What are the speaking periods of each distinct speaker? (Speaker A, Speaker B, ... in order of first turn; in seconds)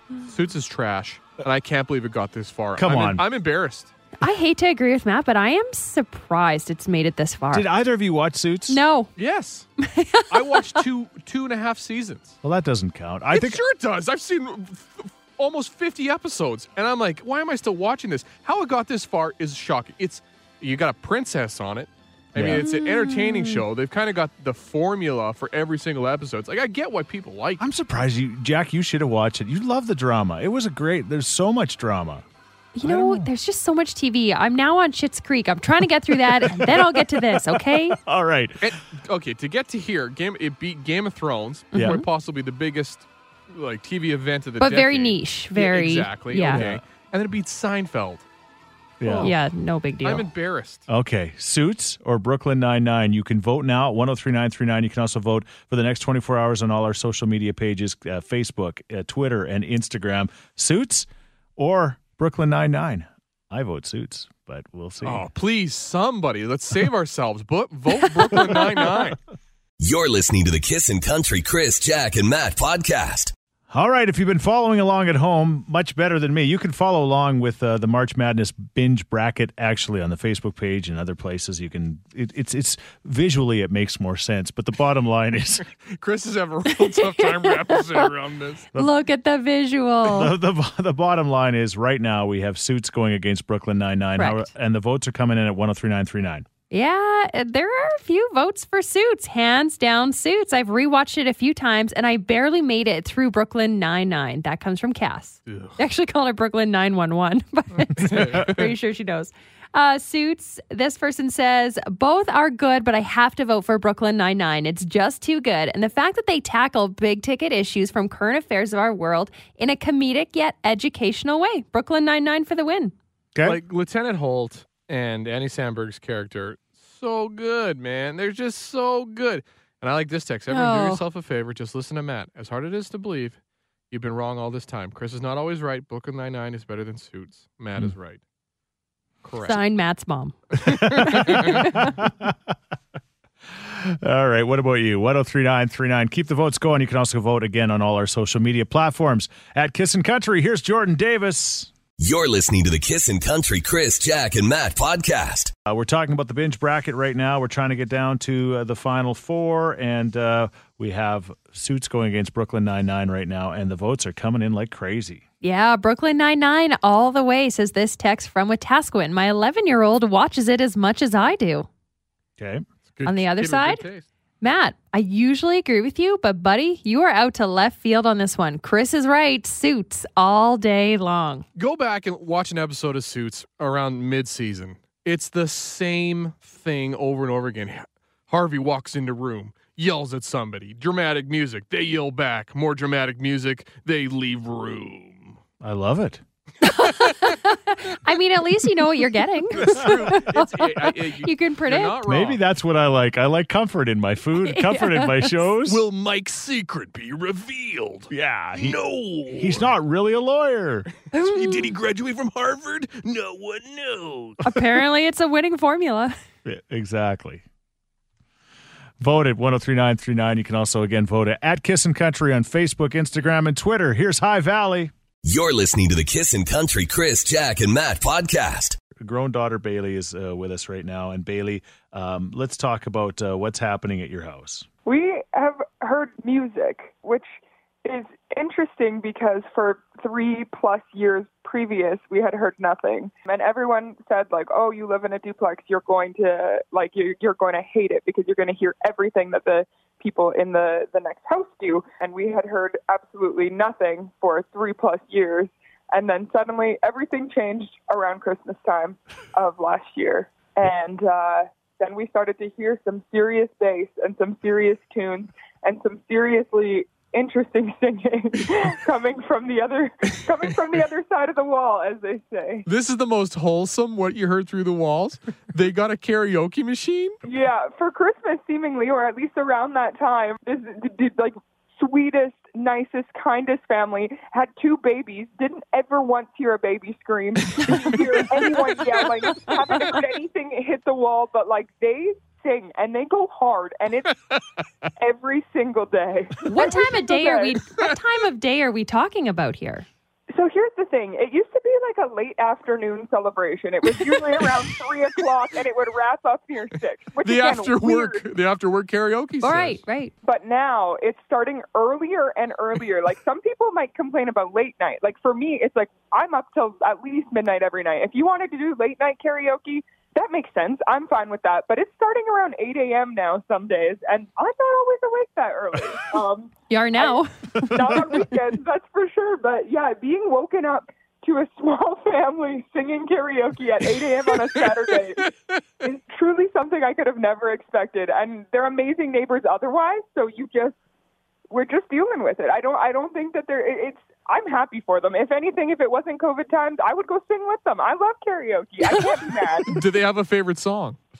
Speaker A: 0.2-3.9, 9.2-9.7, 10.3-12.3, 13.3-27.6, 38.6-48.2, 49.0-49.3, 50.0-50.8, 65.0-69.2, 85.9-88.7, 105.5-105.8, 107.9-108.7, 123.4-133.4, 133.9-138.2, 139.2-139.6, 140.6-141.7, 172.9-174.1, 181.6-195.4, 196.8-197.3, 199.5-202.4, 205.6-209.7, 211.1-214.5, 272.6-277.2, 307.2-309.8, 349.7-351.0
Speaker B: 2.8-3.2, 7.5-8.8, 12.4-13.6, 22.3-22.6, 27.6-32.2, 32.8-33.3, 36.1-38.7, 41.8-42.0, 46.4-46.8, 49.0-49.3, 50.9-65.2, 73.7-85.6, 90.0-96.5, 123.3-123.6, 140.6-142.5, 143.5-151.7, 155.7-165.2, 172.4-172.7, 195.6-196.2, 202.0-205.8, 208.1-208.8, 209.3-210.9, 216.4-217.4, 219.0-224.9, 229.0-234.7
Speaker C: 4.2-7.7, 8.7-9.1, 9.8-10.8, 22.5-23.6, 32.8-38.0, 41.7-42.0, 44.6-46.6, 49.2-50.2, 86.9-88.0, 88.8-90.3, 94.2-94.5, 96.7-122.9, 130.5-131.0, 139.4-141.9, 165.4-171.7, 173.0-173.8, 174.4-181.4, 196.6-202.0, 204.4-205.4, 211.1-211.7, 214.4-216.1, 296.4-299.9, 309.4-310.1, 326.7-328.1
Speaker D: 69.8-73.3, 152.0-155.5, 225.2-228.8
Speaker E: 234.8-237.3, 237.8-272.6, 277.2-294.2, 295.0-297.6, 300.3-308.2, 310.2-340.8, 341.5-349.7